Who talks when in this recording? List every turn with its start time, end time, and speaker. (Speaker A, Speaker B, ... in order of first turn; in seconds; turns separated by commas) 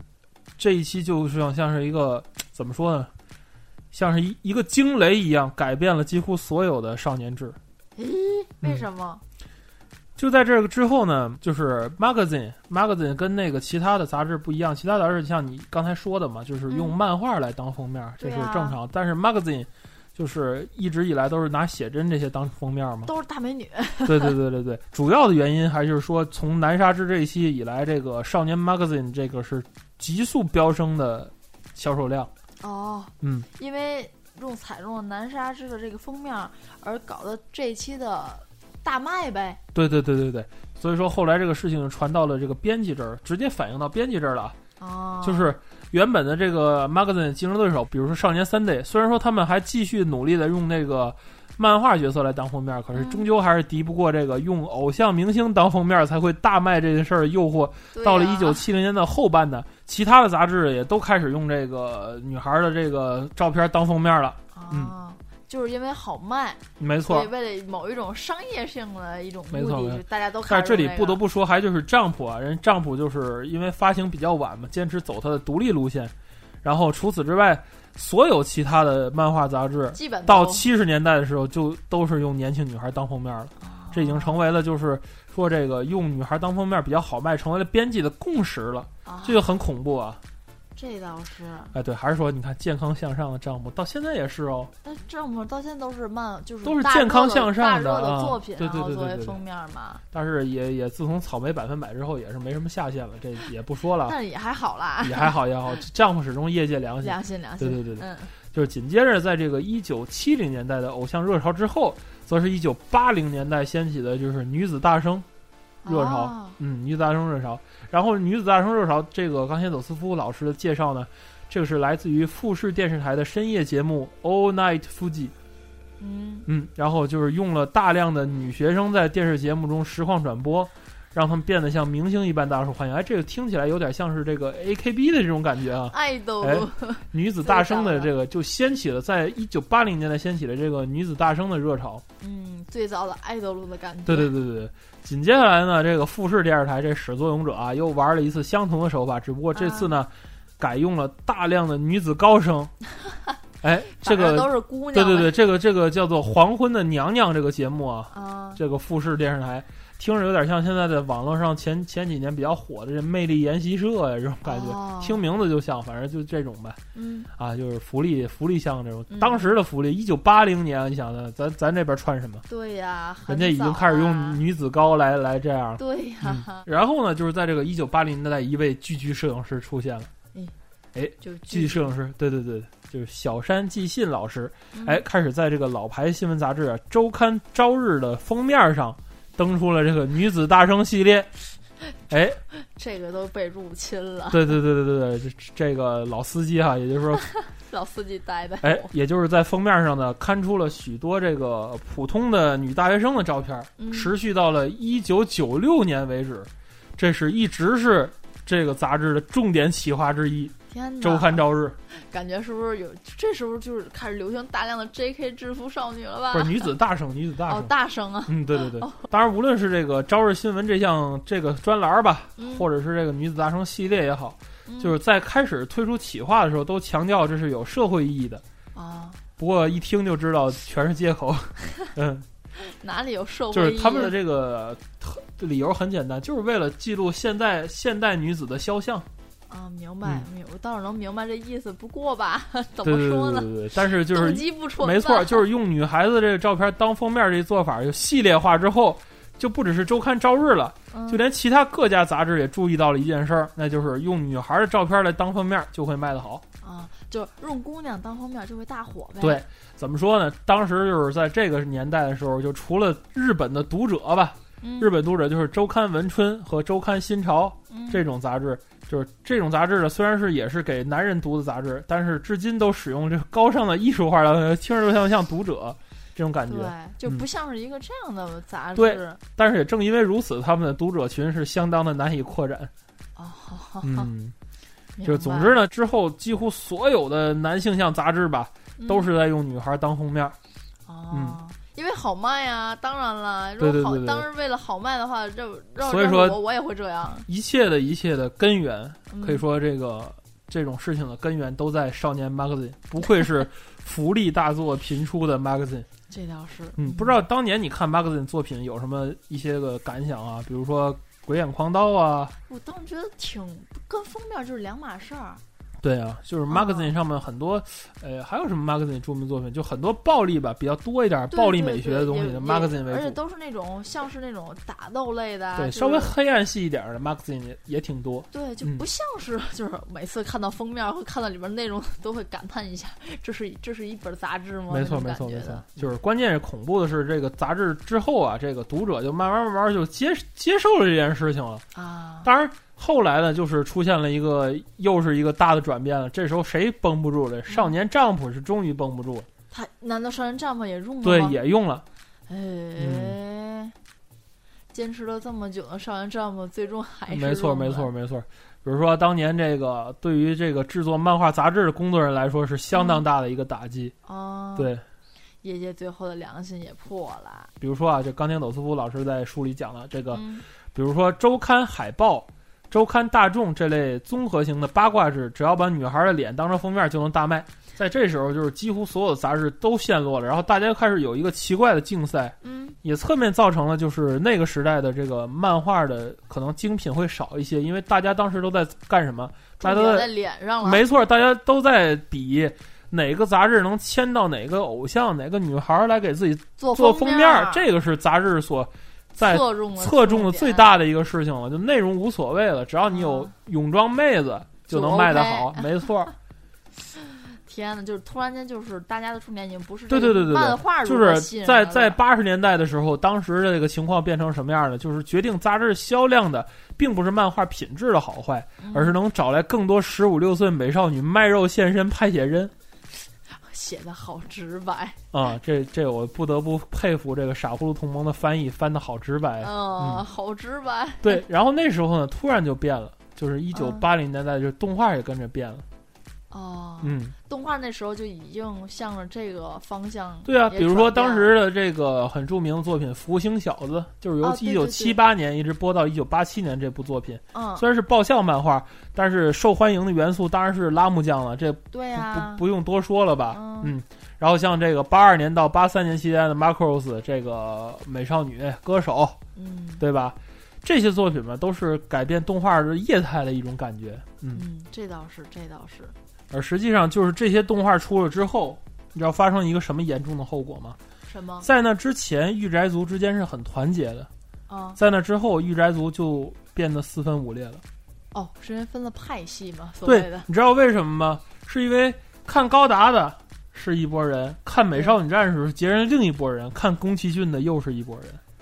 Speaker A: 0.6-3.1, Speaker A: 3.9-7.6, Speaker B: 8.0-9.2, Speaker A: 10.2-23.1, Speaker B: 16.7-17.0, Speaker B: 18.2-18.8, Speaker B: 23.0-24.4, Speaker A: 24.1-32.3, Speaker B: 32.6-39.6, Speaker A: 33.2-33.5, Speaker A: 39.7-44.6, Speaker B: 44.8-45.6, Speaker A: 45.2-65.0, Speaker B: 52.9-53.2, Speaker B: 57.9-58.6, Speaker B: 64.5-71.2, Speaker A: 66.8-67.3, Speaker A: 69.5-90.2, Speaker B: 79.9-80.7, Speaker B: 83.6-84.4, Speaker B: 89.0-89.4, Speaker B: 90.8-91.7, Speaker A: 91.7-94.7, Speaker B: 94.8-100.0, Speaker A: 96.6-99.4, Speaker A: 100.1-104.2, Speaker B: 104.0-105.3, Speaker A: 105.0-115.3, Speaker B: 107.0-108.3, Speaker B: 115.8-116.6, Speaker A: 115.8-125.3, Speaker B: 126.0-126.5, Speaker A: 126.5-142.0, Speaker B: 135.9-138.1, Speaker B: 142.2-144.3, Speaker A: 144.1-152.7, Speaker B: 149.5-150.0, Speaker A: 153.6-166.8, Speaker B: 153.9-155.3, Speaker B: 158.1-158.6, Speaker B: 164.4-165.2, Speaker B: 166.9-167.3, Speaker A: 167.3-172.4, Speaker B: 169.1-169.5, Speaker B: 172.5-174.4, Speaker A: 173.3-180.1, Speaker B: 175.8-176.6, Speaker A: 180.9-191.3, Speaker B: 181.2-181.9, Speaker B: 184.7-185.1, Speaker A: 192.1-192.4, Speaker B: 192.5-194.6, Speaker A: 194.3-197.2, Speaker B: 197.6-198.9, Speaker A: 198.6-211.8, Speaker B: 203.8-204.1, Speaker B: 210.7-216.7, Speaker A: 216.3-217.7, Speaker B: 217.5-219.0, Speaker A: 218.3-228.4, Speaker B: 222.4-222.7, Speaker B: 224.7-225.0, Speaker B: 228.7-229.2, Speaker A: 229.4-232.3, Speaker B: 232.6-234.2, Speaker A: 233.5-239.1, Speaker B: 239.5-245.5, Speaker A: 242.8-256.4, Speaker B: 250.9-251.2, Speaker B: 256.6-259.4, Speaker A: 259.2-277.2, Speaker B: 264.6-264.9, Speaker B: 267.7-268.0, Speaker B: 276.5-279.2, Speaker A: 278.8-282.7, Speaker B: 283.2-284.1, Speaker A: 283.8-284.4, Speaker B: 285.0-285.6, Speaker A: 285.0-290.4, Speaker B: 288.8-289.1, Speaker B: 290.9-297.3, Speaker A: 291.1-291.4, Speaker A: 293.6-294.3, Speaker A: 295.8-296.4, Speaker A: 297.3-305.9, Speaker B: 299.1-299.4, Speaker B: 306.1-307.2, Speaker A: 306.8-312.4, Speaker B: 312.5-315.4, Speaker A: 315.8-323.2, Speaker B: 316.5-316.9, Speaker B: 321.3-326.1, Speaker A: 325.6-328.9, Speaker B: 328.3-335.7, Speaker A: 334.7-341.6, Speaker B: 341.7-342.3, Speaker A: 342.2-349.3, Speaker B: 347.5-347.7, Speaker B: 349.5-351.4, Speaker A: 351.0-351.8, Speaker B: 352.3-353.8, Speaker A: 352.8-353.2, Speaker B: 354.7-357.9, Speaker A: 357.1-363.9, Speaker B: 362.7-363.0, Speaker B: 364.1-364.7, Speaker A: 364.6-364.8, Speaker B: 365.4-367.5, Speaker A: 367.6-406.1, Speaker B: 370.1-370.5, Speaker B: 382.4-382.8, Speaker B: 389.6-390.8, Speaker B: 396.6-397.7, Speaker B: 399.2-400.7, Speaker B: 402.9-403.3, Speaker B: 404.7-405.9, Speaker B: 406.9-412.0, Speaker A: 409.9-422.5, Speaker B: 418.6-419.0, Speaker B: 423.3-425.0, Speaker A: 425.1-430.1, Speaker B: 429.4-431.2, Speaker A: 431.0-435.6, Speaker B: 433.5-433.9, Speaker B: 436.3-441.4, Speaker A: 436.8-437.1, Speaker A: 440.2-459.2, Speaker B: 444.2-445.0, Speaker B: 447.3-447.6, Speaker B: 451.7-452.4, Speaker B: 453.3-453.7, Speaker B: 459.4-459.8, Speaker A: 459.8-464.4, Speaker B: 464.3-465.9, Speaker A: 466.3-470.8, Speaker B: 471.1-471.5, Speaker A: 471.4-474.1, Speaker B: 474.5-474.8, Speaker A: 474.8-477.6, Speaker B: 478.1-480.3, Speaker A: 479.8-488.2, Speaker B: 484.7-485.0